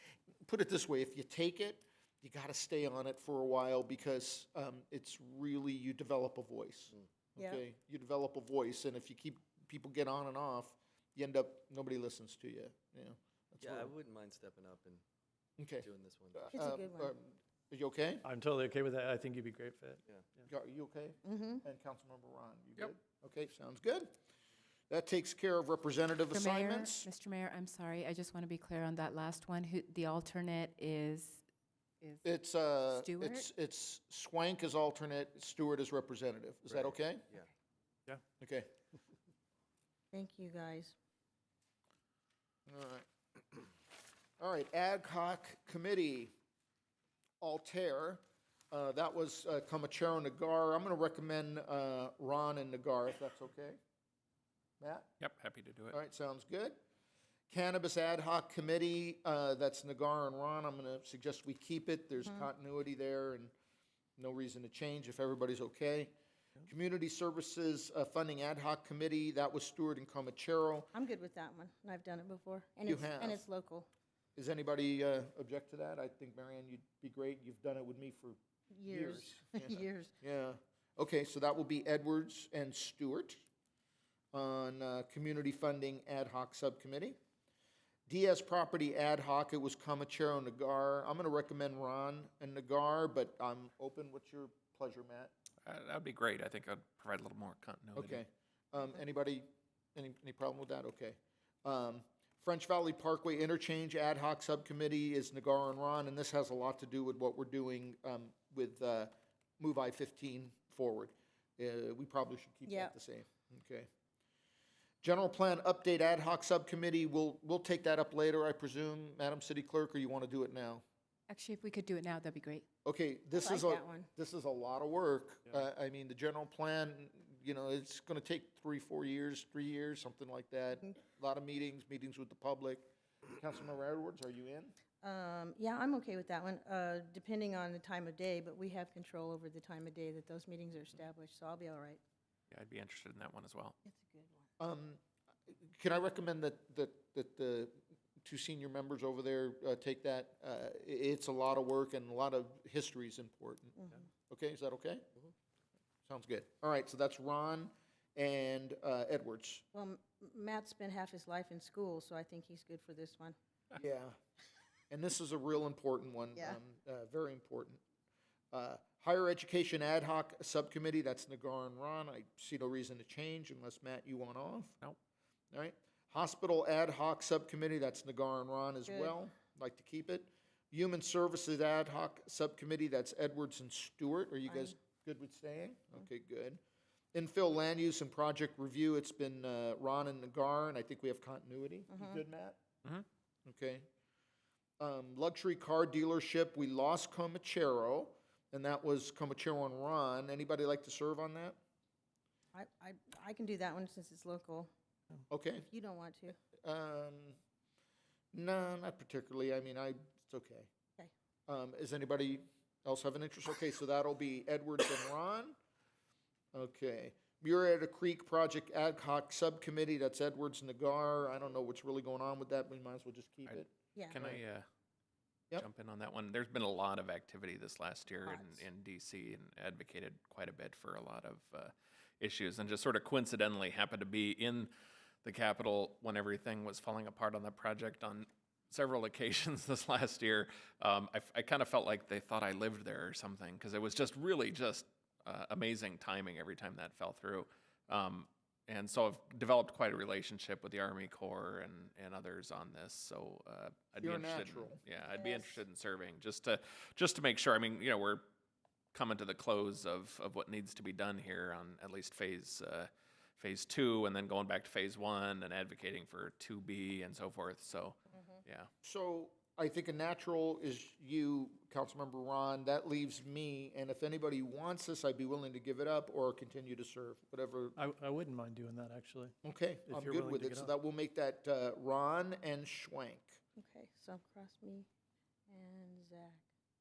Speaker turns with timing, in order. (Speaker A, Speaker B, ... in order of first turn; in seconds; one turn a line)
Speaker A: 0.4-13.9
Speaker B: 13.6-15.0
Speaker A: 15.6-18.2
Speaker B: 15.8-16.6
Speaker C: 16.5-17.1
Speaker D: 18.2-20.0
Speaker A: 20.5-24.1
Speaker C: 21.2-21.6
Speaker A: 24.9-27.1
Speaker E: 26.3-31.4
Speaker E: 32.0-33.5
Speaker A: 32.2-37.3
Speaker B: 36.7-37.5
Speaker A: 38.4-38.7
Speaker C: 40.1-40.9
Speaker A: 42.7-43.0
Speaker A: 44.4-46.3
Speaker A: 47.4-53.8
Speaker A: 54.8-55.1
Speaker F: 55.2-56.0
Speaker A: 55.9-56.8
Speaker A: 57.5-63.5
Speaker A: 64.2-66.1
Speaker A: 66.7-70.9
Speaker C: 70.9-73.9
Speaker A: 72.8-73.4
Speaker A: 74.3-83.4
Speaker C: 78.7-80.1
Speaker A: 84.3-87.2
Speaker A: 88.1-95.3
Speaker F: 95.6-98.2
Speaker A: 98.0-113.9
Speaker C: 112.7-112.9
Speaker A: 115.0-120.8
Speaker E: 121.3-122.6
Speaker A: 122.8-134.7
Speaker C: 123.3-124.1
Speaker C: 135.0-142.0
Speaker F: 142.5-143.8
Speaker C: 143.8-144.4
Speaker A: 144.6-145.0
Speaker A: 145.7-155.1
Speaker C: 153.8-154.1
Speaker A: 156.1-159.6
Speaker C: 159.7-163.3
Speaker A: 163.7-164.2
Speaker A: 164.9-167.8
Speaker A: 168.5-174.8
Speaker A: 175.5-186.6
Speaker C: 178.9-179.2
Speaker C: 184.5-184.7
Speaker A: 187.1-192.6
Speaker C: 191.9-192.2
Speaker A: 193.4-193.8
Speaker A: 194.8-201.6
Speaker C: 202.5-204.7
Speaker A: 205.3-205.7
Speaker C: 205.6-206.4
Speaker A: 206.6-207.4
Speaker A: 208.3-210.7
Speaker A: 211.5-215.6
Speaker A: 216.5-224.4
Speaker F: 223.5-224.6
Speaker F: 225.6-234.7
Speaker C: 228.2-228.6
Speaker F: 235.2-258.2
Speaker A: 254.0-254.8
Speaker C: 255.1-255.6
Speaker F: 258.9-268.7
Speaker A: 268.8-277.8
Speaker D: 277.8-279.3
Speaker A: 279.4-283.4
Speaker D: 279.8-280.7
Speaker C: 283.6-284.9
Speaker C: 285.5-286.4